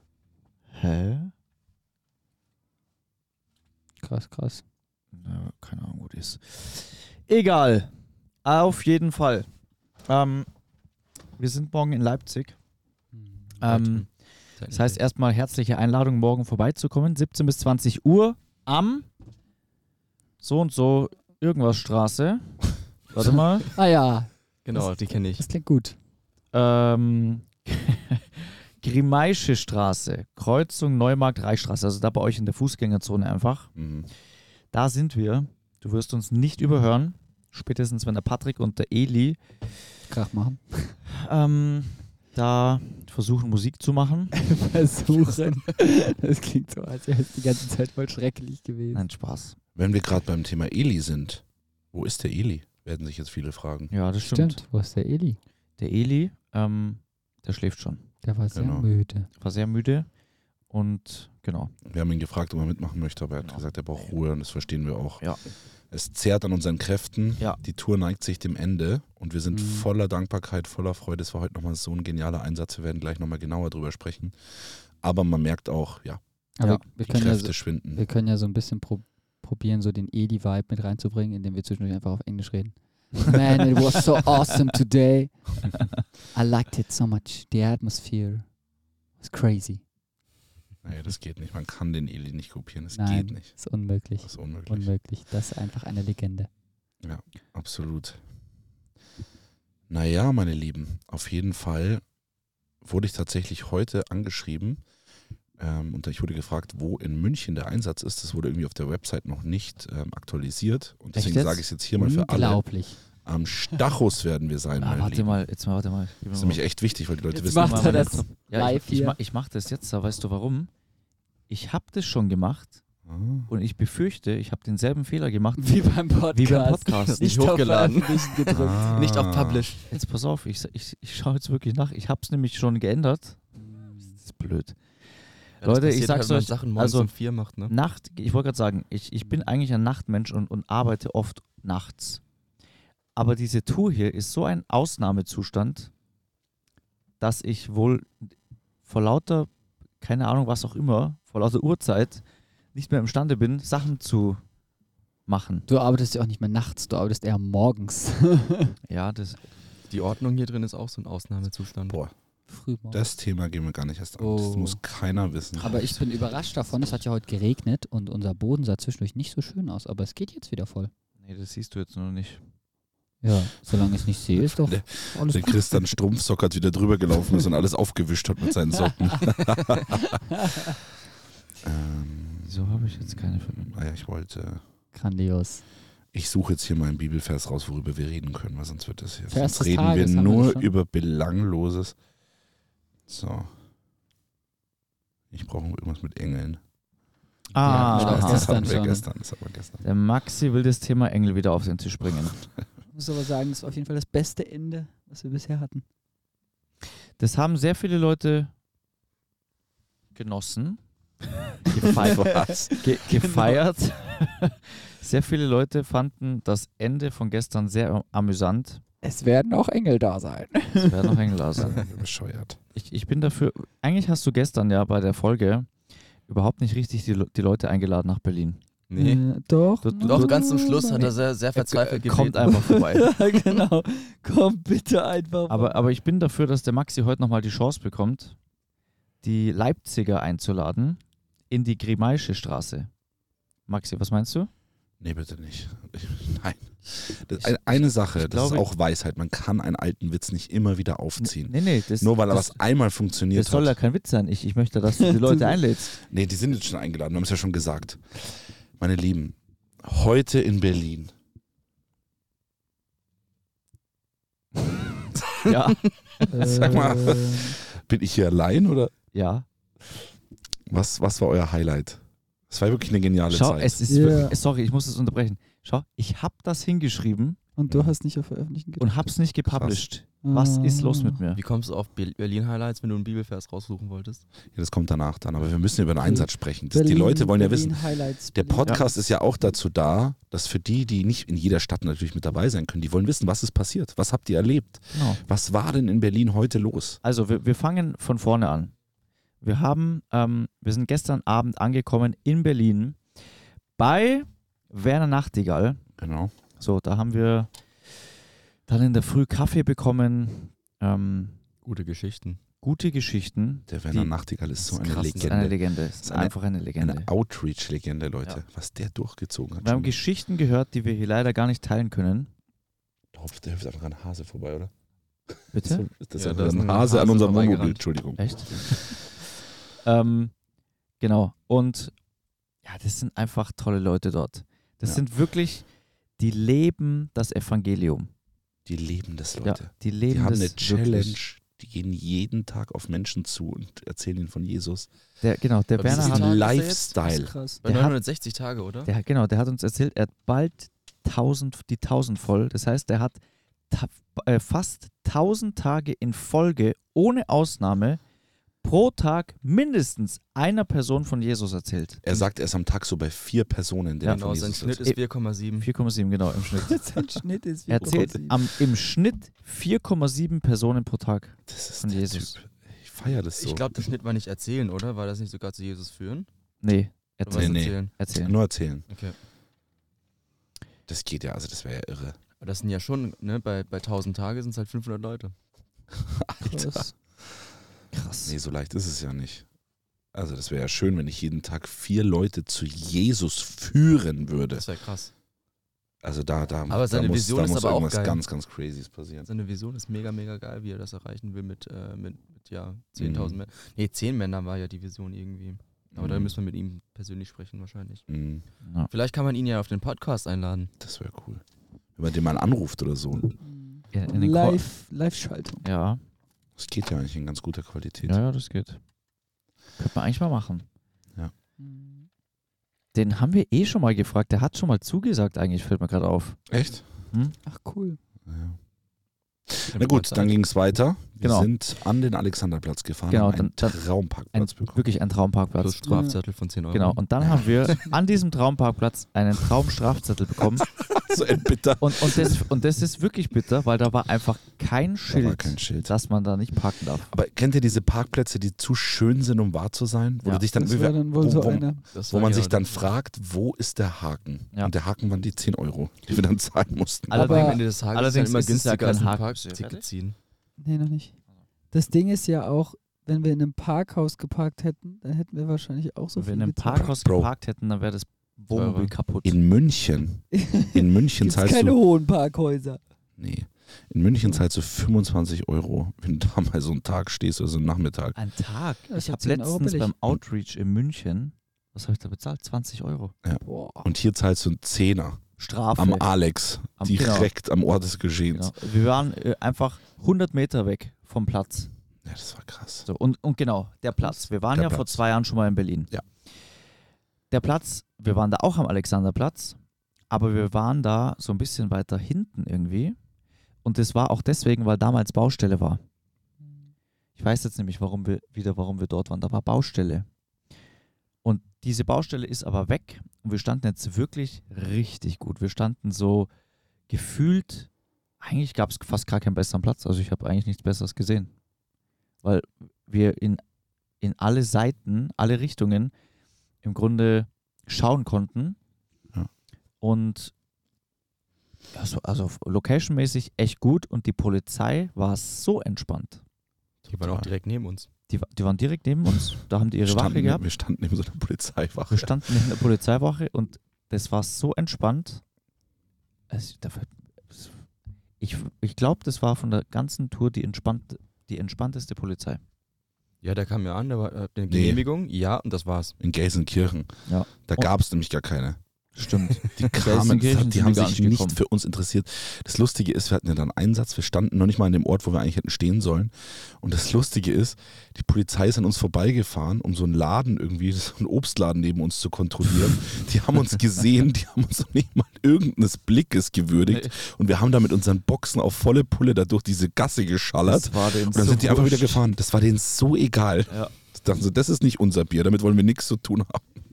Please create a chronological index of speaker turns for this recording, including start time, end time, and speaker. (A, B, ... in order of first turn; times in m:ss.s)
0:00.7-0:01.3 A
0:04.0-0:04.6 B
0:05.1-0:07.9 A
0:08.4-0:09.5 A
0:10.1-0:10.5 A
0:11.4-0:12.6 A
0:13.6-0:14.1 A
0:13.6-0:14.1 C
0:14.6-0:15.0 C
0:14.7-0:19.1 A
0:20.4-0:23.7 A
0:23.7-0:26.0 B
0:24.6-0:25.4 C
0:26.5-0:33.7 A
0:33.8-0:34.1 D
0:34.7-0:39.4 A
0:40.1-0:41.0 B
0:41.1-0:44.3 A
0:44.4-0:49.0 B
0:48.9-0:49.6 A
0:49.8-0:53.9 D
0:53.9-0:54.6 A
0:54.2-0:55.4 B
0:55.8-0:58.0 A
0:58.2-0:59.3 B
0:58.5-0:58.9 D
0:59.4-1:00.1 A
1:00.7-1:01.7 A
1:01.8-1:05.3 D
1:05.9-1:16.2 D
1:09.5-1:09.9 B
1:16.6-1:28.5 B
1:17.0-1:18.0 D
1:29.2-1:29.8 B
1:30.8-1:33.5 D
1:32.9-1:36.5 B
1:34.2-1:34.9 D
1:37.0-1:38.2 D
1:39.9-1:42.0 D
1:42.8-1:44.8 D
1:45.6-1:55.4 D
1:51.1-1:51.7 A
1:51.9-1:53.0 B
1:54.8-1:56.6 A
1:56.3-1:58.3 D
1:57.3-1:59.2 B
1:57.5-2:00.7 A
2:01.5-2:02.8 A
2:03.0-2:03.5 D
2:03.5-2:07.3 A
2:05.6-2:08.9 B
2:07.1-2:09.9 C
2:08.5-2:09.7 D
2:09.9-2:13.4 A
2:13.6-2:14.2 B
2:14.2-2:14.8 A
2:15.6-2:17.7 C
2:15.6-2:17.1 A
2:17.7-2:22.2 A
2:23.2-2:25.9 A
2:27.2-2:29.5 A
2:30.0-2:34.4 A
2:35.3-2:35.7 A
2:35.7-2:38.8 B
2:38.9-2:39.4 A
2:39.9-2:42.0 C
2:41.9-2:42.1 D
2:42.5-2:43.0 B
2:42.9-2:46.0 D
2:44.2-2:44.8 B
2:45.6-2:50.9 B
2:51.2-2:52.4 A
2:53.2-2:55.9 B
2:54.3-3:00.7 D
3:00.4-3:00.7 B
3:01.6-3:04.6 D
3:02.4-3:03.7 A
3:04.9-3:05.6 B
3:06.1-3:12.0 D
3:09.3-3:10.7 B
3:13.1-3:13.5 D
3:15.3-3:16.6 D
3:17.5-3:18.6 A
3:17.6-3:19.8 D
3:17.6-3:19.1 B
3:19.8-3:22.4 A
3:22.9-3:25.8 B
3:27.2-3:28.5 A
3:30.1-3:30.8 A
3:31.7-3:38.8 A
3:31.7-3:32.7 D
3:32.0-3:33.6 B
3:39.0-3:41.3 B
3:40.8-3:41.8 A
3:41.5-3:42.6 D
3:42.7-3:45.7 A
3:46.2-3:48.6 A
3:48.9-3:49.2 C
3:48.9-3:51.1 B
3:49.8-3:53.1 A
3:50.0-3:52.8 C
3:52.5-3:55.9 B
3:55.5-3:58.4 A
3:59.2-4:02.9 A
4:03.7-4:04.5 A
4:05.0-4:13.8 D
4:07.4-4:08.7 A
4:11.2-4:12.6 A
4:13.3-4:16.0 A
4:15.9-4:21.1 D
4:25.4-4:25.8 A
4:26.3-4:27.6 B
4:26.3-4:28.9 D
4:29.1-4:29.4 A
4:30.7-4:34.3 D
4:33.3-4:37.4 A
4:33.9-4:34.4 B
4:37.6-4:38.9 B
4:37.7-4:37.9 D
4:38.8-4:41.4 A
4:39.4-4:39.8 D
4:40.2-4:41.2 B
4:41.3-4:44.2 C
4:44.5-4:57.0 D
4:46.0-4:49.0 B
4:54.9-4:55.2 A
4:57.0-4:58.7 A
4:59.4-5:03.0 A
5:03.8-5:05.8 A
5:06.0-5:06.3 D
5:06.6-5:07.5 A
5:08.7-5:11.4 A
5:11.6-5:12.4 C
5:12.6-5:17.1 A
5:13.7-5:20.0 D
5:19.6-5:22.3 A
5:23.1-5:24.7 D
5:25.3-5:29.0 D
5:25.5-5:25.9 A
5:26.2-5:27.8 C
5:28.2-5:29.0 A
5:29.8-5:30.3 A
5:31.0-5:31.9 A
5:32.6-5:35.7 A
5:36.2-5:38.1 A
5:38.6-5:44.9 D
5:39.4-5:41.2 A
5:45.2-5:46.3 A
5:45.8-5:47.0 C
5:45.8-5:47.3 D
5:47.0-5:47.6 B
5:47.6-5:48.9 C
5:47.6-5:48.0 A
5:48.8-5:58.0 A
5:58.6-6:02.2 A
6:02.0-6:04.9 D
6:04.0-6:05.7 C
6:05.6-6:06.9 A
6:06.6-6:08.4 B
6:07.7-6:12.4 A
6:07.8-6:08.4 D
6:11.5-6:13.7 D
6:13.3-6:16.3 C
6:16.6-6:18.3 A
6:17.2-6:17.9 C
6:17.3-6:18.8 D
6:18.9-6:19.2 C
6:20.9-6:22.2 D
6:22.4-6:25.3 C
6:25.9-6:26.9 D
6:26.4-6:26.9 B
6:27.9-6:28.4 A
6:28.2-6:29.4 D
6:30.1-6:34.7 D
6:34.5-6:35.1 C
6:36.0-6:39.3 D
6:36.7-6:38.2 C
6:39.2-6:48.0 C
6:43.0-6:43.4 D
6:45.9-6:46.3 D
6:48.1-6:48.4 D
6:48.9-6:50.7 C
6:50.8-6:51.4 D
6:52.0-6:53.4 D
6:53.4-6:55.6 B
6:53.9-6:54.6 A
6:55.6-6:56.0 A
6:56.6-6:58.2 D
6:58.0-6:58.8 A
6:59.8-7:00.6 A
7:01.6-7:02.1 B
7:02.9-7:06.4 A
7:06.5-7:06.8 D
7:07.1-7:07.4 A
7:07.4-7:08.0 B
7:08.2-7:08.6 D
7:09.5-7:14.8 D
7:09.7-7:10.4 C
7:11.2-7:11.5 A
7:13.1-7:13.8 A
7:14.3-7:15.8 A
7:15.6-7:17.0 C
7:15.8-7:16.2 B
7:16.7-7:20.7 A
7:17.2-7:17.7 D
7:20.6-7:22.4 D
7:21.8-7:27.1 A
7:25.1-7:25.9 D
7:27.1-7:37.3 D
7:30.5-7:31.8 B
7:31.9-7:32.9 C
7:37.1-7:39.8 A
7:37.1-7:40.2 C
7:37.1-7:37.6 B
7:40.6-7:41.1 B
7:41.7-7:46.9 B
7:46.2-7:49.4 A
7:46.7-7:47.3 D
7:48.5-7:48.9 C
7:49.2-7:51.8 D
7:50.3-7:52.8 B
7:53.2-7:58.2 D
7:58.2-8:03.1 A
7:58.9-7:59.9 B
8:03.2-8:08.5 D
8:03.4-8:03.9 B
8:05.4-8:06.1 A
8:06.8-8:07.3 A
8:08.3-8:11.7 A
8:12.0-8:12.9 D
8:12.8-8:15.9 A
8:14.0-8:15.0 D
8:17.3-8:19.6 A
8:20.1-8:23.0 A
8:23.6-8:25.8 A
8:27.2-8:30.1 A
8:31.2-8:36.3 A
8:36.9-8:37.7 A
8:38.2-8:41.3 A
8:42.2-8:43.4 A
8:44.0-8:45.9 A
8:46.6-8:48.6 A
8:49.8-8:50.3 A
8:51.7-8:56.2 A
8:56.8-8:57.3 D
8:56.9-8:57.9 C
8:58.1-9:00.4 A
8:59.8-9:02.2 D
9:01.9-9:05.2 A
9:06.3-9:07.6 A
9:08.2-9:12.4 A
9:13.2-9:15.9 C
9:14.5-9:14.8 D
9:16.0-9:18.6 D
9:17.1-9:17.7 A
9:18.9-9:21.4 A
9:19.4-9:46.5 D
9:36.6-9:36.9 A
9:40.4-9:42.0 A